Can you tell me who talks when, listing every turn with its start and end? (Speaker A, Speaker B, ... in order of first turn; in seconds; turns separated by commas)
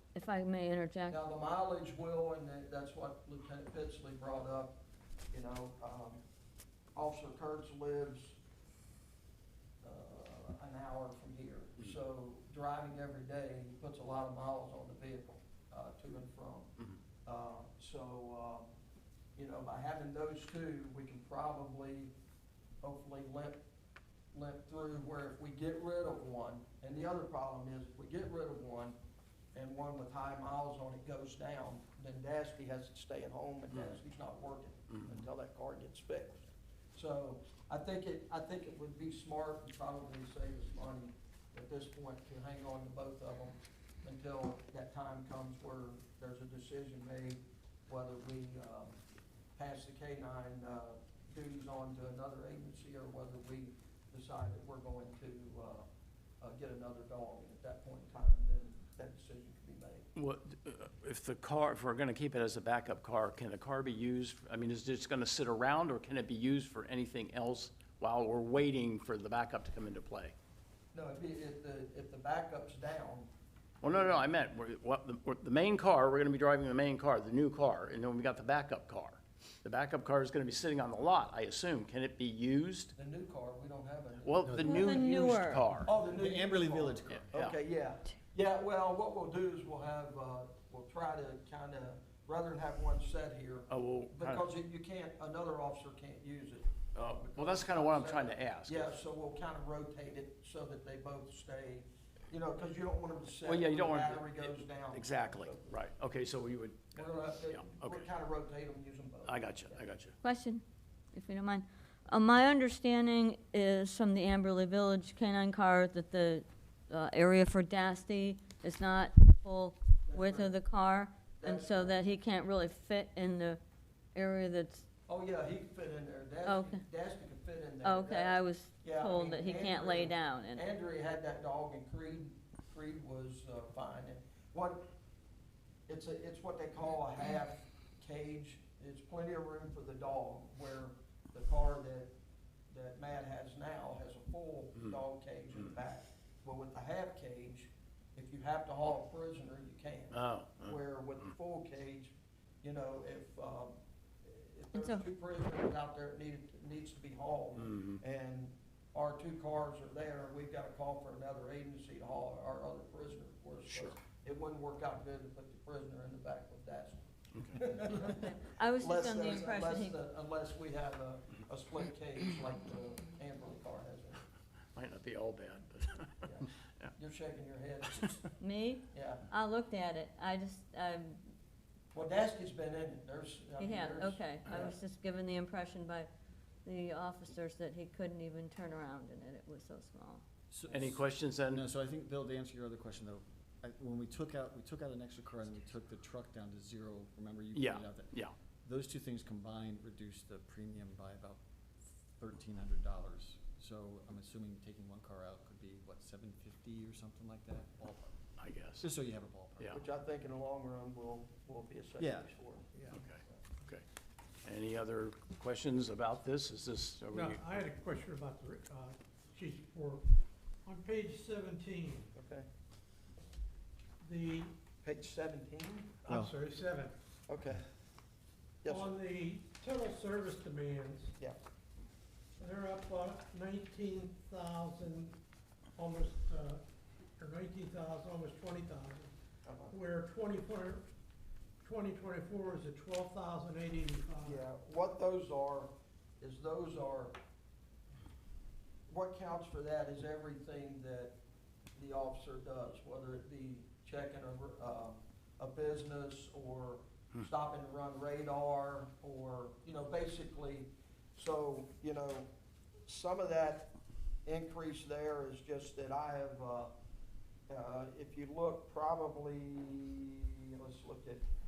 Speaker A: 0.1-1.2, Speaker B: 1.1-4.8, Speaker B: 5.3-6.2, Speaker B: 6.9-8.4, Speaker B: 9.8-16.7, Speaker B: 17.2-18.7, Speaker B: 19.4-22.1, Speaker B: 22.8-23.6, Speaker B: 24.3-28.9, Speaker B: 29.5-49.0, Speaker C: 33.7-34.0, Speaker C: 34.9-35.2, Speaker B: 49.5-55.9, Speaker B: 56.4-60.1, Speaker C: 60.1-70.3, Speaker B: 70.9-73.3, Speaker C: 73.8-82.9, Speaker B: 73.8-74.2, Speaker B: 83.0-85.2, Speaker C: 84.2-85.9, Speaker D: 84.4-84.8, Speaker A: 84.6-85.7, Speaker D: 85.7-87.3, Speaker B: 85.8-105.8, Speaker C: 87.1-87.5, Speaker C: 93.7-94.4, Speaker C: 96.9-99.0, Speaker C: 103.4-108.1, Speaker B: 106.9-109.9, Speaker C: 109.2-110.1, Speaker A: 110.2-123.6, Speaker B: 120.0-120.5, Speaker B: 121.4-122.0, Speaker A: 124.1-124.9, Speaker B: 125.1-134.8, Speaker A: 126.5-126.8, Speaker A: 127.8-130.6, Speaker B: 135.9-142.1, Speaker B: 142.7-174.2, Speaker C: 150.1-150.8, Speaker A: 154.7-155.0, Speaker C: 157.6-158.0, Speaker C: 167.3-167.7, Speaker A: 167.9-170.0, Speaker C: 174.7-176.9, Speaker B: 176.2-178.2, Speaker A: 178.4-181.2, Speaker B: 178.9-179.2, Speaker B: 181.9-184.8, Speaker A: 183.6-186.1, Speaker C: 184.4-184.7, Speaker A: 186.6-190.2, Speaker D: 190.5-201.4, Speaker C: 190.7-191.6, Speaker C: 197.5-198.3, Speaker D: 202.1-208.1, Speaker C: 208.4-208.8, Speaker D: 208.8-209.8, Speaker B: 209.7-213.4, Speaker D: 212.0-213.0, Speaker C: 212.9-213.8, Speaker C: 214.4-217.7, Speaker E: 217.1-220.0, Speaker E: 220.6-222.1, Speaker B: 222.1-222.5, Speaker E: 224.0-224.5, Speaker B: 224.8-226.0, Speaker E: 226.0-226.9, Speaker B: 227.3-227.7, Speaker B: 228.6-229.0, Speaker E: 228.7-231.1, Speaker E: 232.4-235.2, Speaker E: 235.8-236.6, Speaker E: 237.2-239.1, Speaker B: 239.4-239.8, Speaker E: 239.7-240.8, Speaker E: 241.6-244.3, Speaker B: 244.2-247.1, Speaker B: 248.9-251.1, Speaker B: 251.7-262.3, Speaker B: 262.9-263.7, Speaker B: 264.2-266.7, Speaker B: 267.5-271.2